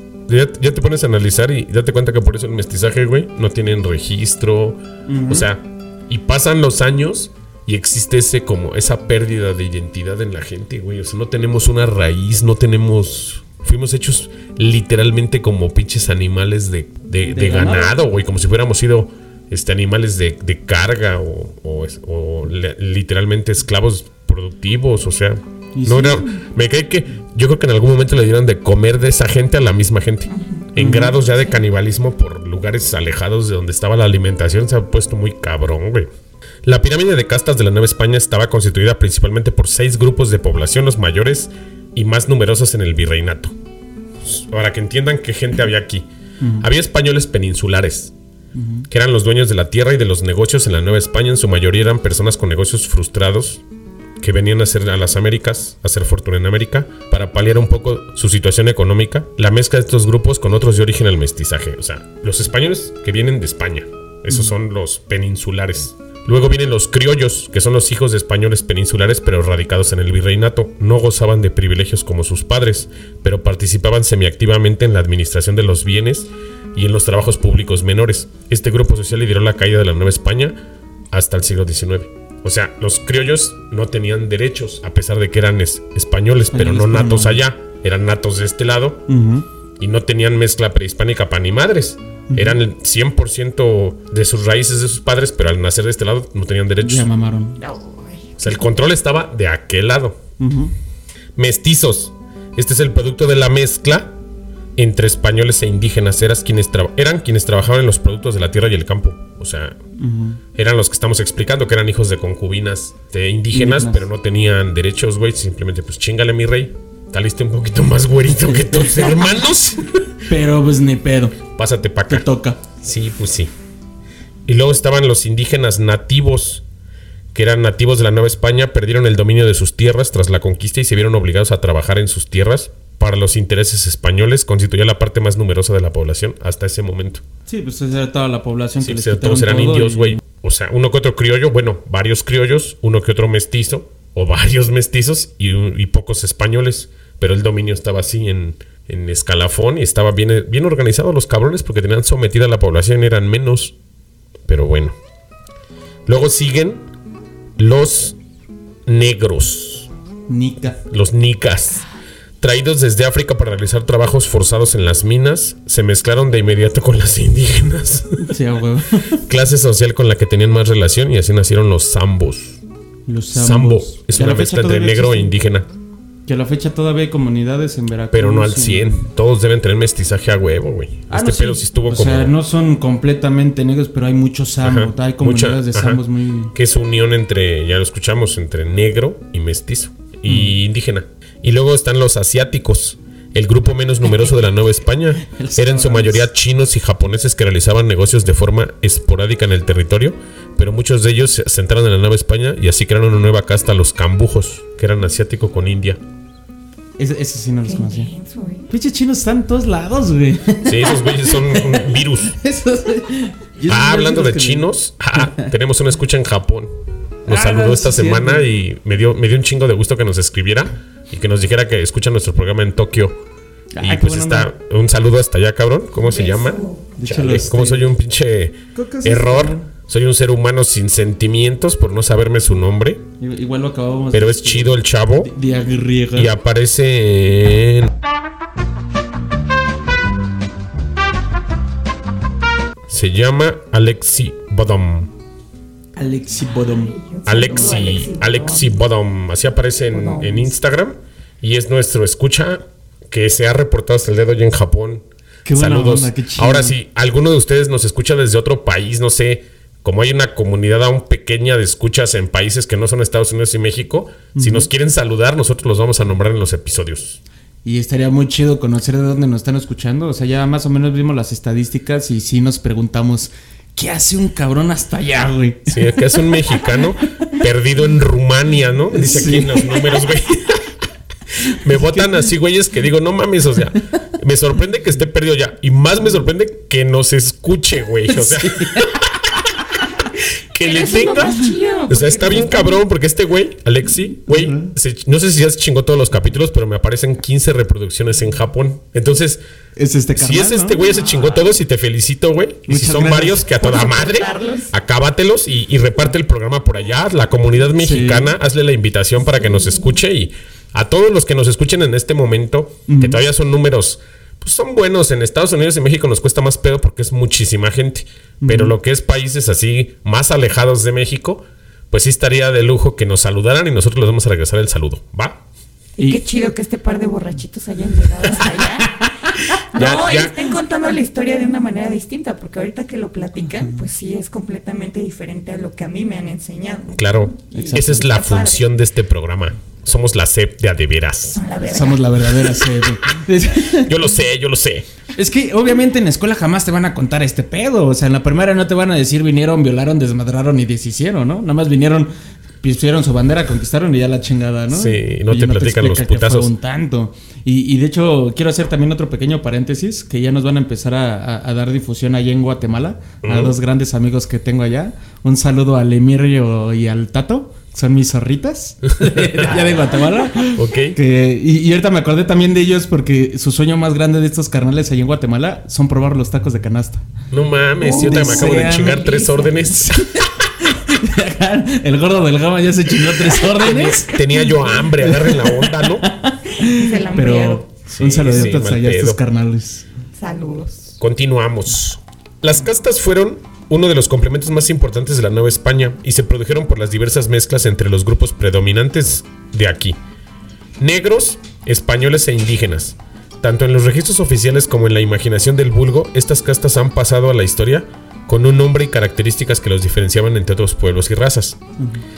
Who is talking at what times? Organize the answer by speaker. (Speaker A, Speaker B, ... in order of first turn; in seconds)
Speaker A: 0.3-36.1, 36.6-43.5, 44.2-46.0, 46.6-48.1, 48.9-53.6, 54.2-80.6, 81.1-89.0, 89.8-97.1, 98.4-100.2, 101.3-104.2, 104.8-109.8, 110.5-120.1, 121.5-123.5, 124.5-126.6, 127.3-137.2, 138.8-153.7, 154.4-154.9, 156.1-156.8, 157.6-158.2, 158.8-159.9, 160.8-161.8, 162.4-168.3, 169.2-172.6, 173.3-175.7, 178.1-182.3, 184.6-186.0, 186.5-206.0, 210.6-212.3, 213.7-216.7, 217.2-223.2, 223.8-233.0, 234.1-235.3, 236.1-237.9, 242.9-245.1, 247.2-267.2, 275.7-280.7, 281.4-289.1, 290.5-299.4, 300.1-325.4, 329.7-330.5, 336.9-341.4, 343.7-344.9, 354.7-356.5, 363.2-363.6, 368.9-371.0, 377.3-380.3, 383.1-386.1, 387.9-389.2, 391.0-400.0, 400.8-411.6
Speaker B: 5.1-5.5, 17.3-18.0, 25.7-26.4, 30.8-31.1, 46.4-46.7, 48.5-48.9, 86.5-87.4, 89.1-89.5, 92.3-92.5, 96.8-97.6, 100.4-100.7, 110.0-110.4, 113.5-114.0, 118.5-119.3, 120.3-121.3, 122.1-122.6, 137.5-140.2, 160.3-160.8, 168.2-169.2, 173.1-175.3, 176.2-179.0, 181.1-186.5, 194.1-194.3, 195.2-196.3, 207.0-208.1, 208.7-215.5, 217.3-218.4, 223.7-224.5, 227.0-227.9, 228.7-229.7, 233.2-236.3, 245.9-247.0, 255.4-256.7, 264.3-264.7, 267.6-276.0, 278.9-279.9, 281.8-282.1, 288.2-288.9, 294.3-294.7, 299.8-300.8, 302.7-303.5, 307.8-308.3, 312.9-313.2, 318.4-318.7, 337.5-338.1, 341.6-343.9, 345.1-377.1, 377.9-389.9, 411.8-412.0
Speaker C: 30.3-30.7, 97.6-98.6, 207.7-208.7, 226.0-226.8, 246.5-248.8, 249.9-250.5, 290.6-292.8, 303.5-304.7, 326.0-329.0, 329.7-338.6, 341.3-342.5, 377.8-379.6, 386.6-387.6, 390.1-390.9